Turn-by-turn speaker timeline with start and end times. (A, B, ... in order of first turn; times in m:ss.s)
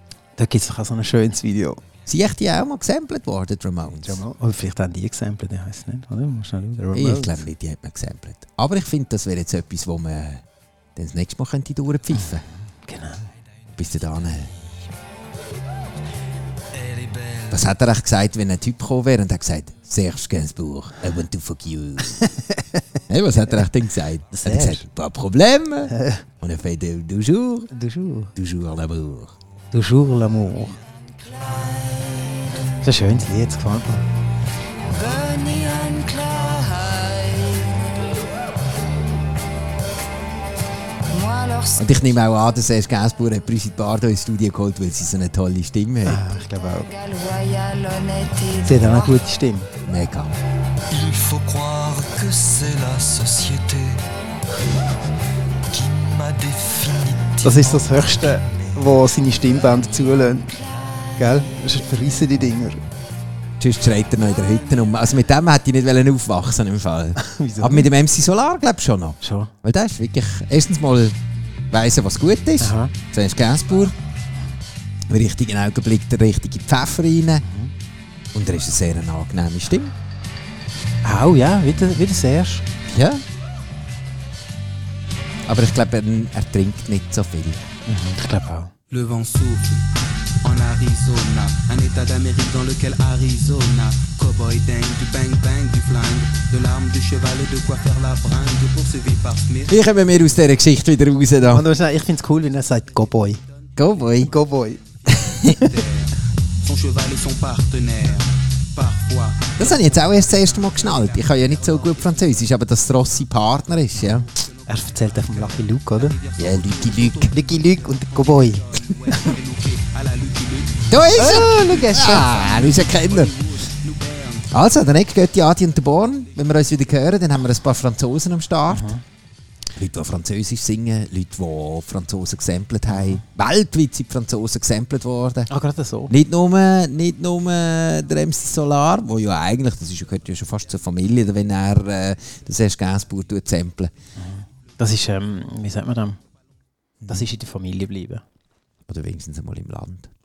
0:00.4-0:01.8 A
0:02.0-0:04.2 B
0:04.0-0:07.4 A
0:06.9-0:10.4 B
0:11.0-0:12.4 B
0:12.8-0:13.2 A
0:13.8-0:14.5 B
0:16.7-0:17.6 C
0:17.5-0:22.2 B
0:22.2-0:22.8 A
0:23.1-0:27.7 B
0:24.3-0:24.8 A
0:25.9-0:26.2 A
0:27.7-0:28.3 A
0:28.3-0:29.3 B
0:29.7-0:30.8 A
0:31.4-0:32.3 D
0:32.8-0:34.0 A
0:34.9-0:37.9 D
0:41.1-0:41.9 D
0:41.8-0:46.2 B
0:46.0-0:46.9 A
0:46.6-0:49.2 D
0:48.6-0:49.7 A
0:49.8-0:50.4 B
0:50.9-0:54.0 C
0:55.7-0:58.8 C
0:57.4-1:00.5 A
1:01.2-1:02.8 A
1:03.6-1:11.2 B
1:07.2-1:07.9 A
1:09.2-1:09.5 A
1:11.7-1:13.9 B
1:12.6-1:12.9 A
1:15.1-1:17.4 B
1:17.4-1:17.7 A
1:18.3-1:19.9 B
1:21.0-1:22.6 A
1:22.9-1:23.2 B
1:25.5-1:27.6 B
1:27.9-1:28.7 A
1:28.9-1:29.8 E
1:30.4-1:39.7 E
1:39.7-1:41.6 B
1:41.5-1:43.4 A
1:43.8-1:44.3 B
1:44.2-1:44.8 A
1:45.1-1:45.6 B
1:45.5-1:52.3 E
1:49.6-1:54.3 B
1:54.0-1:56.2 A
1:54.4-2:00.9 E
1:56.4-1:57.3 B
1:57.3-1:59.3 A
2:00.9-2:03.4 B
2:01.1-2:02.3 A
2:02.1-2:04.5 E
2:04.5-2:08.9 B
2:08.7-2:09.0 A
2:09.7-2:15.5 B
2:12.9-2:13.2 A
2:15.5-2:16.1 A
2:16.1-2:23.9 B
2:24.2-2:26.2 A
2:27.0-2:27.3 B
2:27.1-2:28.2 A
2:28.9-2:30.1 B